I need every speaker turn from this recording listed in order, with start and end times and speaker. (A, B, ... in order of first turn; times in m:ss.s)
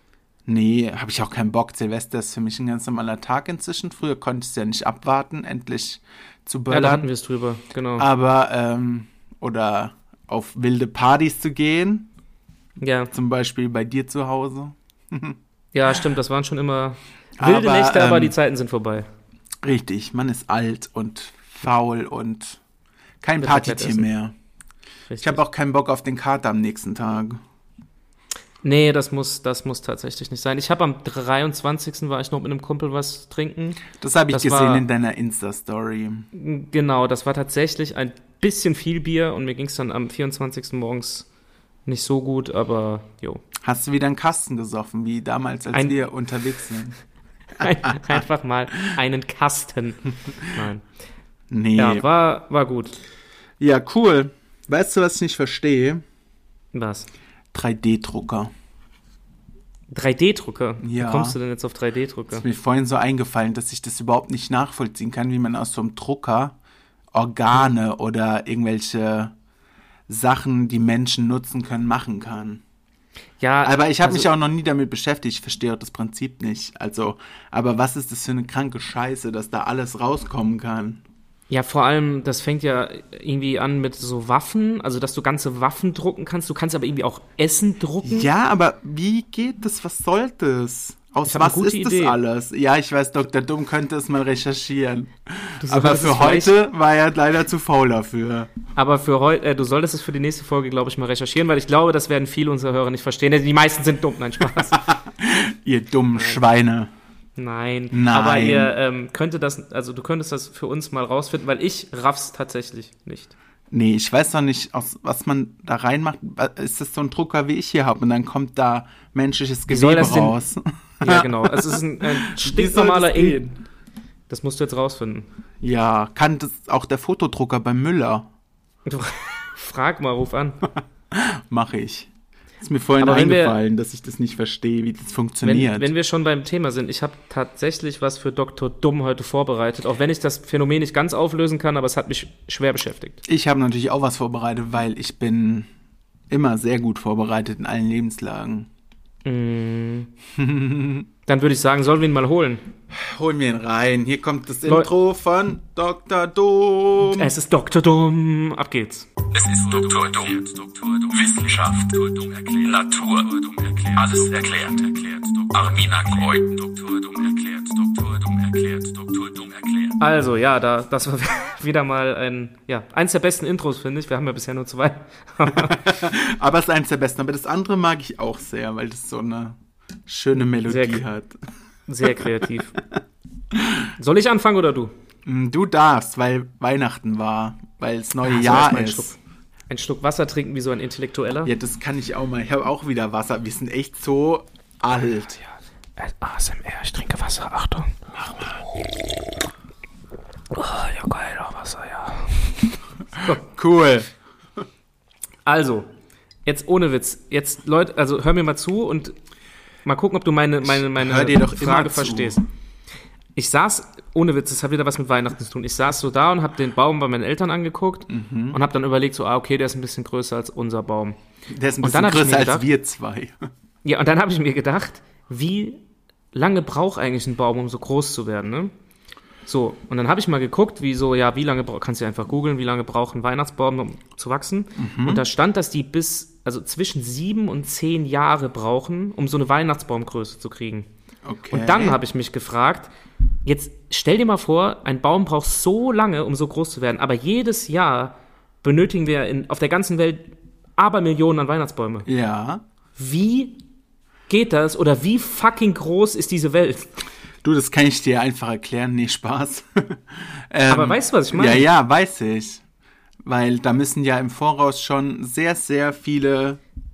0:00.5-0:07.1 A
0:06.7-0:08.1 B
0:08.0-0:12.1 A
0:12.8-0:13.1 B
0:13.1-0:15.4 A
0:15.7-0:19.1 B
0:17.4-0:18.4 A
0:19.6-0:22.6 A
0:23.2-0:24.3 A
0:23.4-0:24.1 B
0:25.1-0:25.4 B
0:25.2-0:27.4 A
0:28.6-0:34.9 B
0:34.0-0:36.3 A
0:36.3-0:41.3 B
0:41.9-0:43.4 B
0:43.6-0:47.0 A
0:47.6-0:50.8 B
0:47.6-0:48.2 A
0:51.5-0:52.0 A
0:51.8-0:53.0 B
0:53.6-0:56.0 A
0:56.7-0:57.1 B
0:57.5-0:58.5 A
0:59.9-1:02.4 B
1:00.8-1:01.4 A
1:02.3-1:06.6 A
1:07.1-1:09.3 A
1:10.1-1:12.6 A
1:13.4-1:14.3 B
1:13.6-1:21.0 A
1:21.5-1:28.3 B
1:28.0-1:38.5 A
1:31.3-1:32.2 B
1:35.6-1:36.5 B
1:38.8-1:44.8 B
1:44.7-1:46.9 A
1:47.4-1:53.3 B
1:47.9-1:48.7 A
1:53.7-2:03.6 A
1:59.7-2:00.4 B
2:01.0-2:03.4 B
2:04.3-2:05.3 B
2:05.6-2:08.3 A
2:08.9-2:10.6 B
2:11.1-2:12.1 A
2:12.6-2:15.9 A
2:13.0-2:13.6 B
2:15.4-2:23.2 B
2:23.2-2:25.7 A
2:26.3-2:28.7 A
2:29.2-2:30.1 B
2:30.4-2:31.1 A
2:31.3-2:32.6 B
2:32.9-2:37.3 A
2:34.6-2:34.9 B
2:37.0-2:39.1 B
2:39.3-2:50.0 C
2:50.0-2:55.9 B
2:55.5-2:59.6 A
3:00.1-3:01.3 A
3:00.7-3:01.0 B
3:01.9-3:02.8 B
3:04.0-3:04.9 B
3:05.3-3:09.1 A
3:08.2-3:09.2 B
3:09.7-3:11.5 B
3:11.4-3:15.4 A
3:16.0-3:18.0 B
3:18.2-3:18.5 A
3:20.5-3:23.4 B
3:23.2-3:24.1 A
3:25.4-3:25.9 B
3:26.4-3:29.2 B
3:29.8-3:32.4 B
3:30.6-3:32.4 A
3:33.4-3:41.2 B
3:38.1-3:38.6 A
3:41.5-3:43.3 A
3:41.8-3:42.7 B
3:43.8-3:45.8 B
3:46.3-3:48.7 B
3:49.5-4:00.9 B
3:54.8-3:55.2 A
4:01.2-4:02.0 A
4:01.5-4:02.9 B
4:03.4-4:12.1 B
4:12.1-4:12.6 A
4:13.0-4:13.6 B
4:14.3-4:16.9 B
4:17.4-4:22.6 A
4:20.7-4:21.7 B
4:23.2-4:26.6 A